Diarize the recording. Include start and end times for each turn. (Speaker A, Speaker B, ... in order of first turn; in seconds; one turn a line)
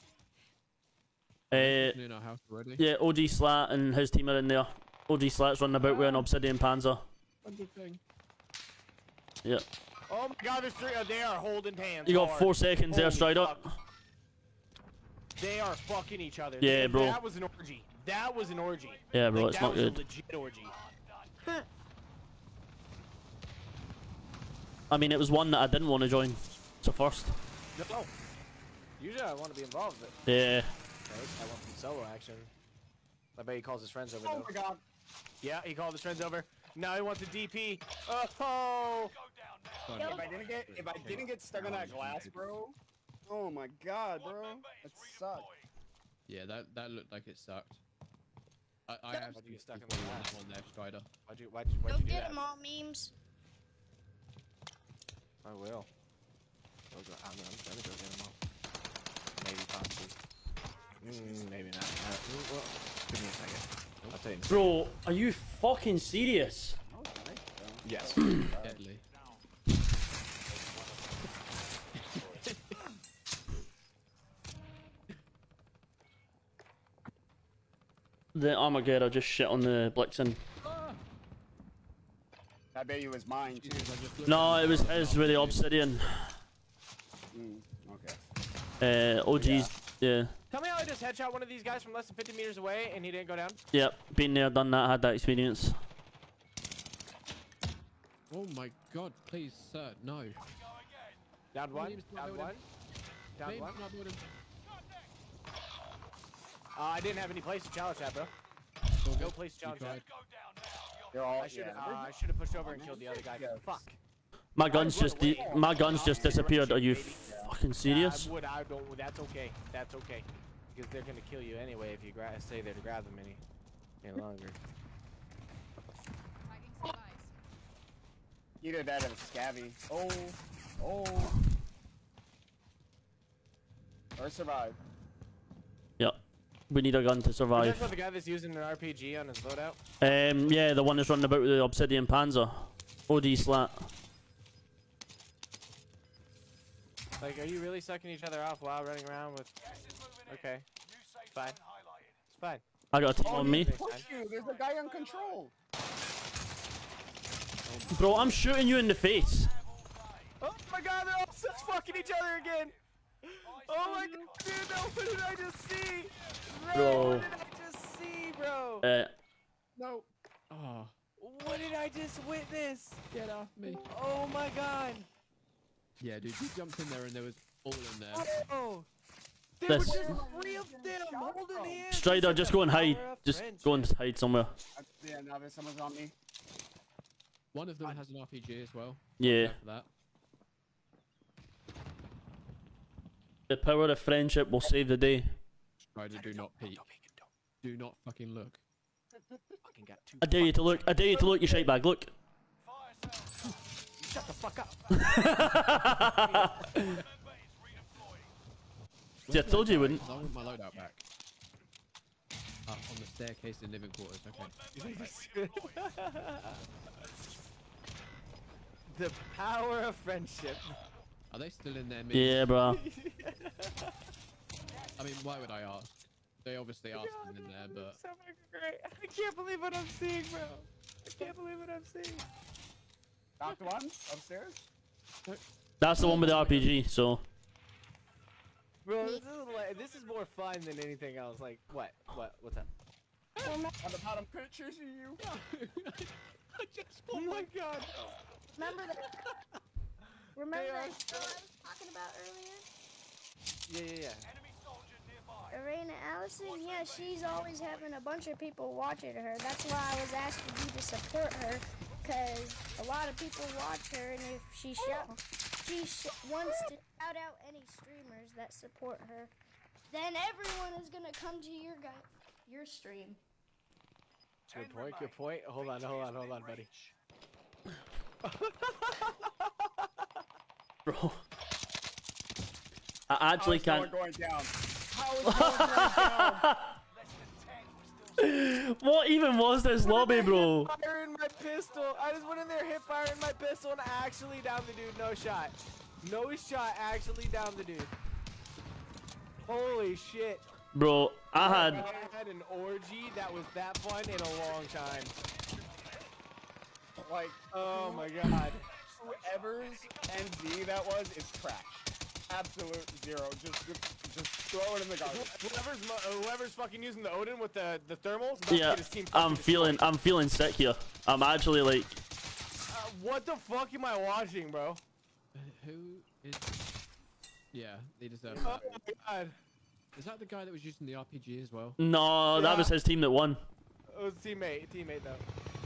Speaker A: 1.5-2.0
Speaker B: 1.5-2.8
Speaker A: 2.8-7.0
Speaker B: 5.8-6.2
Speaker B: 7.4-8.0
Speaker C: 10.1-13.6
Speaker A: 12.1-13.7
Speaker C: 15.4-20.8
Speaker A: 16.6-17.2
Speaker A: 19.1-20.0
Speaker D: 21.4-21.7
Speaker A: 24.9-27.4
Speaker C: 27.8-28.1
Speaker C: 29.0-30.2
Speaker A: 30.3-30.7
Speaker C: 31.1-32.5
Speaker C: 33.4-34.5
Speaker E: 34.2-34.8
Speaker C: 35.4-39.1
Speaker B: 39.8-42.5
Speaker D: 39.9-40.3
Speaker E: 40.0-42.8
Speaker E: 43.3-45.5
Speaker B: 46.3-47.8
Speaker B: 48.9-51.1
Speaker C: 49.1-50.4
Speaker C: 51.2-52.4
Speaker D: 51.9-53.1
Speaker C: 55.4-55.9
Speaker C: 56.9-58.4
Speaker C: 59.4-60.2
Speaker C: 61.0-64.7
Speaker A: 64.5-66.8
Speaker E: 66.9-68.8
Speaker C: 67.8-68.2
Speaker B: 68.6-69.0
Speaker B: 72.0-72.5
Speaker A: 78.3-80.4
Speaker B: 80.7-80.9
Speaker E: 82.7-84.0
Speaker B: 83.4-85.6
Speaker A: 84.3-86.4
Speaker E: 87.3-88.2
Speaker A: 88.8-90.3
Speaker E: 89.3-89.7
Speaker C: 90.5-93.6
Speaker A: 93.7-95.7
Speaker B: 98.3-100.4
Speaker C: 101.5-102.6
Speaker B: 101.7-102.6
Speaker C: 103.4-103.8
Speaker B: 103.4-104.2
Speaker C: 106.7-108.3
Speaker B: 109.0-110.1
Speaker C: 109.2-110.0
Speaker E: 111.1-113.8
Speaker C: 111.4-114.0
Speaker A: 114.5-118.3
Speaker C: 114.7-123.4
Speaker E: 114.8-116.5
Speaker C: 124.0-124.6
Speaker E: 128.6-131.3
Speaker E: 134.2-134.8
Speaker A: 136.7-137.9
Speaker C: 137.5-139.8
Speaker A: 140.0-143.9
Speaker C: 147.2-149.6
Speaker C: 150.2-150.7
Speaker C: 151.3-151.6
Speaker C: 152.3-152.6
Speaker A: 152.9-153.7
Speaker C: 153.2-154.1
Speaker E: 153.2-155.5
Speaker B: 157.7-158.4
Speaker C: 157.8-158.2
Speaker A: 157.9-159.5
Speaker C: 160.4-168.8
Speaker A: 166.7-167.3
Speaker A: 168.8-169.1
Speaker B: 169.8-170.9
Speaker C: 171.2-175.1
Speaker B: 173.1-173.8
Speaker B: 176.0-178.3
Speaker C: 178.1-178.9
Speaker C: 179.6-183.9
Speaker A: 179.7-180.1
Speaker D: 180.0-181.1
Speaker A: 181.9-184.5
Speaker E: 184.8-186.1
Speaker B: 187.5-189.9
Speaker A: 189.2-189.6
Speaker A: 193.5-195.3
Speaker B: 195.9-196.9
Speaker C: 196.1-197.3
Speaker B: 197.6-198.6
Speaker E: 199.1-199.6
Speaker C: 199.6-201.2
Speaker A: 200.2-202.1
Speaker E: 201.1-201.7
Speaker C: 204.0-206.5
Speaker A: 204.9-206.9
Speaker B: 209.3-211.0
Speaker A: 209.3-210.0
Speaker C: 209.3-210.3
Speaker B: 212.7-214.6
Speaker C: 214.7-216.6
Speaker C: 218.9-220.8
Speaker B: 221.3-222.5
Speaker A: 222.1-222.8
Speaker C: 222.6-223.9
Speaker B: 225.0-228.0
Speaker C: 226.9-232.2
Speaker E: 233.4-234.6
Speaker B: 235.2-236.7
Speaker A: 235.8-237.2
Speaker C: 238.8-242.7
Speaker D: 243.4-243.8
Speaker E: 243.8-245.2
Speaker B: 245.2-247.4
Speaker C: 247.1-248.2
Speaker D: 248.5-249.1
Speaker D: 250.3-252.6
Speaker C: 250.5-251.4
Speaker C: 253.7-254.3
Speaker D: 255.5-269.3
Speaker D: 269.9-273.2
Speaker C: 274.5-276.7
Speaker C: 278.2-279.9
Speaker A: 280.9-281.2
Speaker A: 283.1-283.9
Speaker E: 283.4-286.5
Speaker A: 285.2-286.8
Speaker A: 288.2-290.7
Speaker C: 289.8-297.9
Speaker C: 299.4-300.5
Speaker A: 300.7-301.9
Speaker E: 301.4-302.1
Speaker C: 301.4-305.1
Speaker E: 307.0-315.4
Speaker C: 307.5-308.6
Speaker C: 315.0-319.8
Speaker A: 318.5-322.0
Speaker C: 322.7-324.8
Speaker B: 325.3-326.5
Speaker B: 327.5-328.9
Speaker E: 328.4-328.8
Speaker C: 328.4-329.3
Speaker B: 329.9-331.8
Speaker A: 331.8-333.4
Speaker C: 332.3-332.7
Speaker C: 333.9-335.2